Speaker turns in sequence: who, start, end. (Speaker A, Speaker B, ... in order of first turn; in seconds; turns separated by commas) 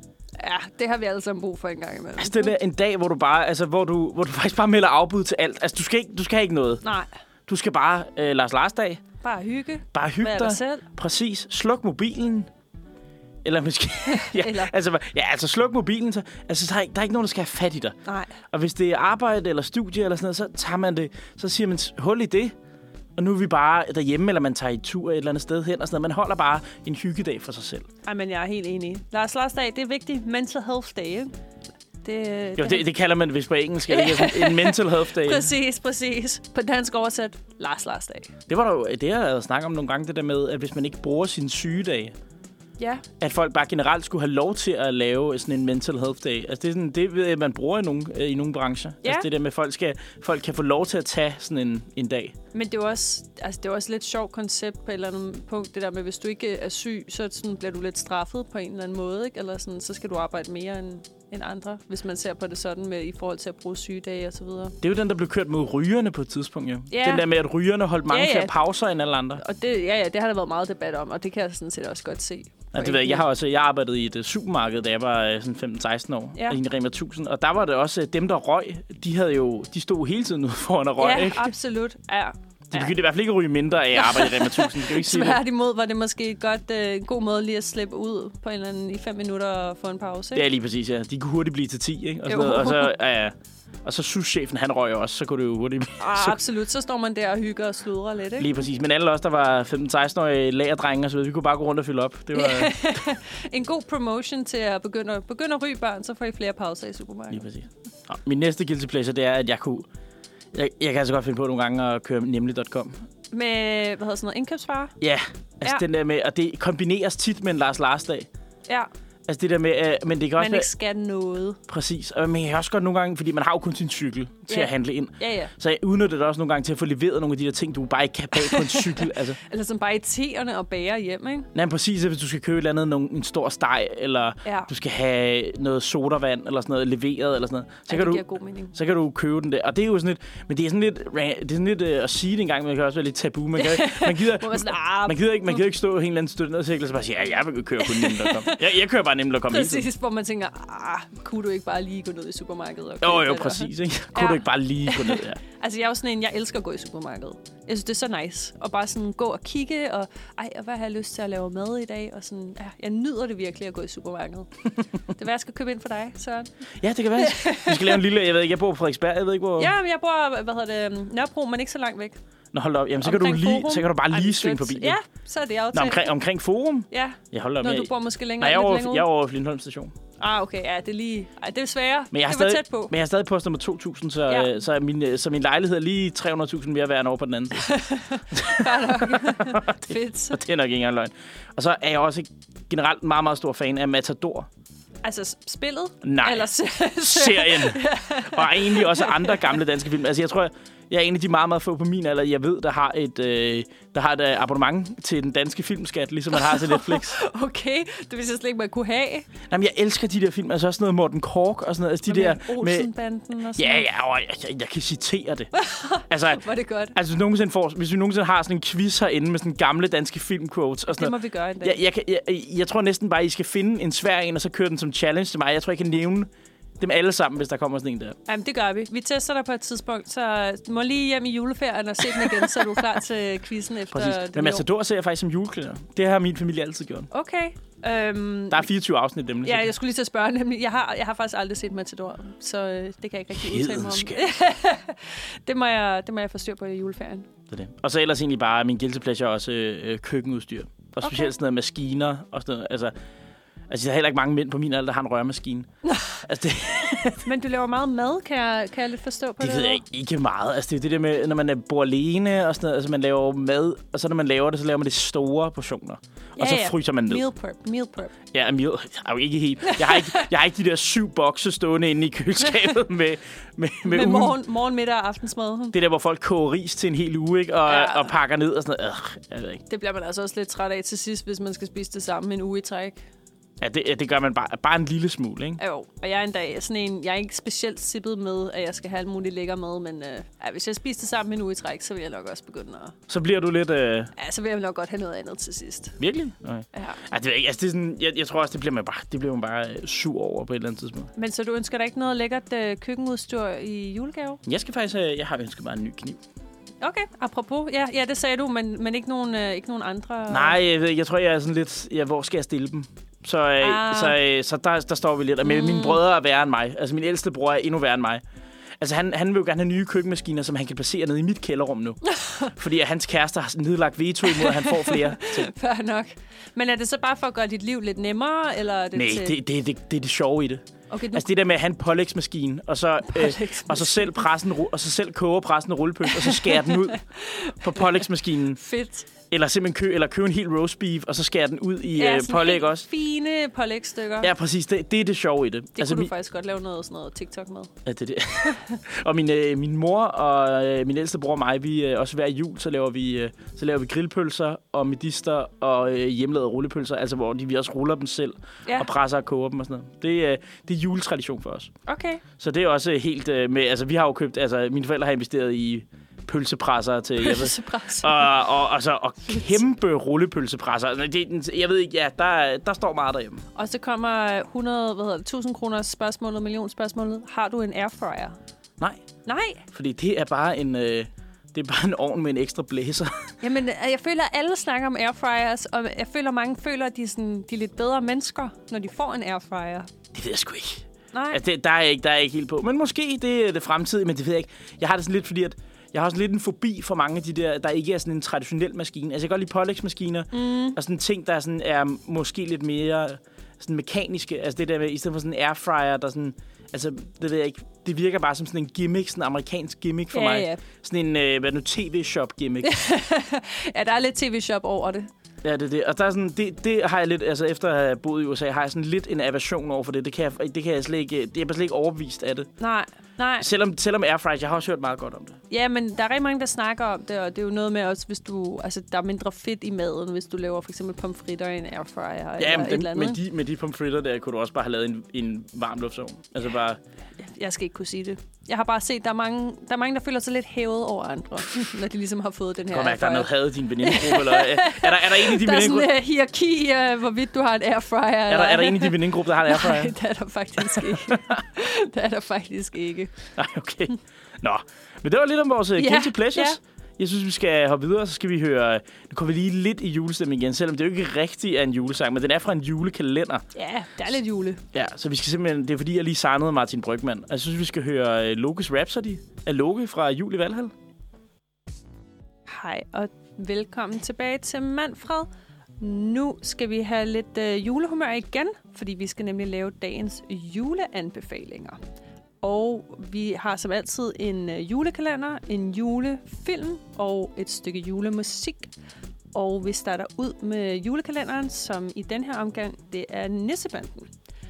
Speaker A: 0.4-2.5, Speaker B: 2.2-6.8, Speaker A: 6.8-7.1, Speaker B: 7.5-9.0, Speaker A: 9.2-10.8, Speaker B: 9.9-12.5, Speaker B: 13.4-18.0, Speaker A: 14.1-14.7, Speaker A: 18.1-18.3, Speaker B: 18.5-22.5, Speaker B: 23.1-27.9, Speaker A: 28.0-31.3, Speaker A: 32.0-32.9, Speaker B: 32.6-35.5, Speaker A: 33.9-38.3, Speaker B: 38.5-42.1, Speaker A: 42.8-43.0, Speaker B: 43.2-52.3, Speaker A: 52.5-64.8, Speaker B: 64.8-69.4, Speaker A: 66.9-67.2, Speaker A: 68.1-68.5, Speaker A: 69.4-73.2, Speaker B: 72.7-81.5, Speaker A: 81.0-82.9, Speaker B: 82.7-85.4, Speaker A: 84.0-90.5, Speaker B: 90.3-96.4, Speaker A: 92.3-92.9, Speaker A: 96.0-98.5, Speaker B: 98.4-103.0, Speaker A: 102.3-107.5, Speaker B: 107.3-109.9, Speaker B: 110.5-113.0, Speaker A: 113.3-115.0, Speaker B: 115.0-118.3, Speaker B: 119.3-120.7, Speaker A: 120.4-121.6, Speaker B: 121.7-129.4, Speaker A: 124.5-125.5, Speaker A: 128.3-131.5, Speaker B: 131.5-149.9, Speaker A: 134.4-134.7, Speaker A: 137.9-138.7, Speaker A: 143.6-145.6, Speaker A: 147.8-148.6, Speaker A: 149.5-164.5, Speaker B: 153.0-155.4, Speaker A: 165.1-166.5, Speaker B: 166.8-169.7, Speaker A: 167.2-168.0, Speaker A: 169.6-172.2, Speaker B: 172.5-175.0, Speaker A: 173.0-176.1, Speaker B: 175.7-179.9, Speaker A: 176.9-179.1, Speaker A: 180.2-182.9, Speaker B: 182.1-187.8, Speaker A: 184.3-184.6, Speaker A: 187.6-190.4, Speaker B: 188.3-194.5, Speaker A: 195.0-199.6, Speaker B: 196.0-207.2, Speaker A: 206.3-209.3, Speaker B: 209.4-212.9, Speaker A: 212.1-213.9, Speaker B: 213.6-215.5, Speaker A: 215.5-216.9, Speaker B: 216.1-216.4, Speaker B: 216.9-228.2, Speaker A: 220.9-221.8, Speaker A: 228.3-234.7, Speaker B: 232.2-232.6, Speaker B: 233.9-237.1, Speaker A: 237.1-238.7, Speaker B: 238.5-239.7, Speaker A: 239.4-247.3, Speaker B: 243.3-244.2, Speaker B: 247.5-252.9, Speaker A: 251.0-251.3, Speaker B: 253.7-257.2, Speaker A: 255.9-256.1, Speaker A: 257.2-259.8, Speaker B: 259.4-267.2, Speaker A: 266.4-268.1, Speaker B: 268.3-274.4, Speaker A: 269.6-270.3, Speaker A: 273.8-275.8, Speaker B: 275.7-279.6, Speaker A: 277.6-278.1, Speaker A: 279.7-283.0, Speaker B: 283.6-285.6, Speaker A: 285.6-292.9, Speaker B: 293.1-294.1, Speaker A: 294.1-296.0, Speaker B: 296.0-301.1, Speaker A: 296.7-297.0, Speaker A: 301.1-304.4, Speaker B: 304.4-306.2, Speaker A: 306.8-310.6, Speaker B: 310.3-318.2, Speaker A: 313.6-314.2, Speaker A: 315.4-316.0, Speaker B: 318.8-325.5, Speaker A: 322.1-322.5, Speaker A: 324.2-329.4, Speaker B: 328.9-338.6, Speaker A: 330.9-331.2, Speaker A: 333.1-334.2, Speaker A: 336.1-338.0, Speaker A: 338.6-339.1, Speaker B: 339.3-342.9, Speaker A: 341.9-344.3, Speaker B: 344.2-346.1, Speaker A: 345.8-347.7, Speaker B: 347.8-361.7, Speaker A: 348.4-348.8, Speaker A: 361.9-362.2, Speaker B: 362.4-373.4, Speaker A: 367.2-368.3, Speaker A: 369.3-369.5, Speaker A: 373.5-378.4, Speaker B: 378.8-379.0, Speaker A: 379.2-379.6, Speaker B: 379.7-383.4, Speaker A: 383.4-389.9, Speaker B: 390.1-412.7, Speaker A: 391.1-391.4, Speaker A: 400.3-400.8, Speaker A: 410.1-410.6, Speaker A: 412.6-415.1, Speaker B: 415.4-422.5, Speaker A: 422.6-423.5, Speaker B: 423.4-425.4, Speaker A: 425.5-433.2, Speaker B: 432.4-436.8, Speaker A: 437.2-453.1, Speaker B: 442.7-445.9, Speaker B: 448.3-449.9, Speaker B: 450.6-451.4, Speaker B: 453.4-463.4, Speaker A: 455.8-456.6, Speaker A: 463.5-464.6, Speaker B: 464.7-470.7, Speaker A: 472.5-475.3, Speaker A: 475.8-481.8, Speaker A: 482.4-488.7, Speaker A: 489.3-494.1